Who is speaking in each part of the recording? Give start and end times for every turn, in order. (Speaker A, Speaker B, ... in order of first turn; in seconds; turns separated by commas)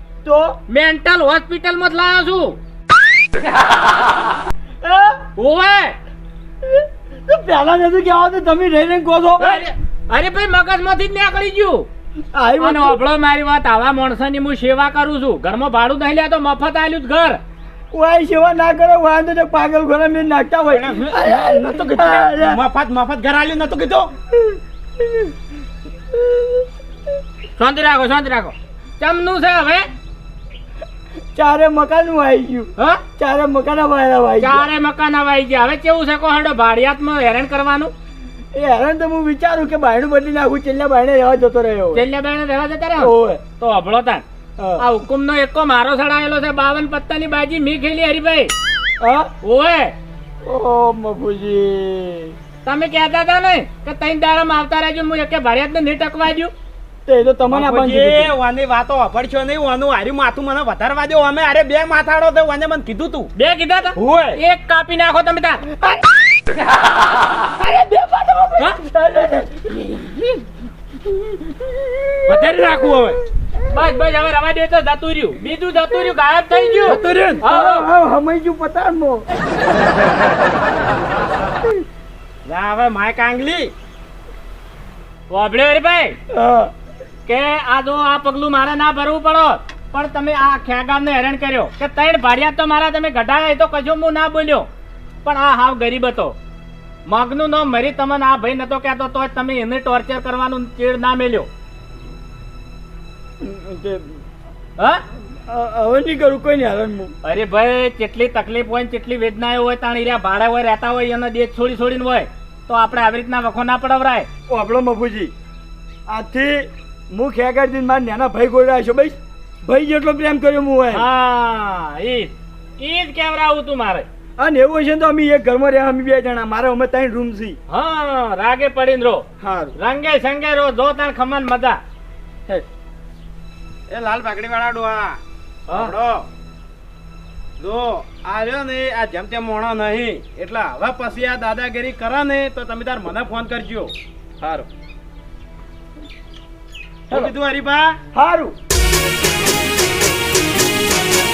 Speaker A: 0.2-0.6, Speaker B: 0.7-2.6, Speaker A: 4.8-5.2, Speaker B: 5.3-6.0, Speaker A: 6.7-9.7, Speaker B: 9.4-11.9, Speaker A: 12.3-13.0, Speaker B: 12.6-17.4, Speaker A: 17.9-22.6, Speaker C: 20.7-24.1, Speaker B: 27.6-29.9, Speaker A: 31.3-34.7, Speaker B: 32.8-33.0, Speaker B: 34.4-37.9, Speaker A: 38.5-42.0, Speaker B: 41.9-44.2, Speaker A: 43.0-43.4, Speaker A: 44.6-44.9, Speaker B: 44.8-48.5, Speaker A: 49.0-49.3, Speaker B: 49.4-49.9, Speaker A: 50.4-52.3, Speaker B: 52.6-56.5, Speaker A: 57.0-58.3, Speaker C: 57.5-63.3, Speaker B: 63.4-65.6, Speaker A: 64.0-64.4, Speaker A: 67.6-70.4, Speaker A: 71.2-72.0, Speaker C: 72.2-73.2, Speaker B: 73.7-77.9, Speaker C: 76.9-77.4, Speaker A: 76.9-79.2, Speaker C: 82.4-83.7, Speaker B: 85.3-86.2, Speaker A: 86.3-86.7, Speaker B: 87.2-94.7, Speaker B: 95.2-96.3, Speaker B: 97.0-101.5, Speaker A: 103.4-104.2, Speaker B: 104.8-105.0, Speaker A: 105.5-107.1, Speaker B: 107.2-114.3, Speaker A: 114.5-115.3, Speaker A: 116.1-121.0, Speaker B: 120.9-124.1, Speaker A: 124.4-127.6, Speaker B: 127.7-129.2, Speaker A: 129.4-129.8, Speaker B: 129.8-131.8, Speaker C: 133.9-136.2, Speaker C: 137.6-144.7, Speaker C: 147.1-148.0, Speaker A: 148.1-148.6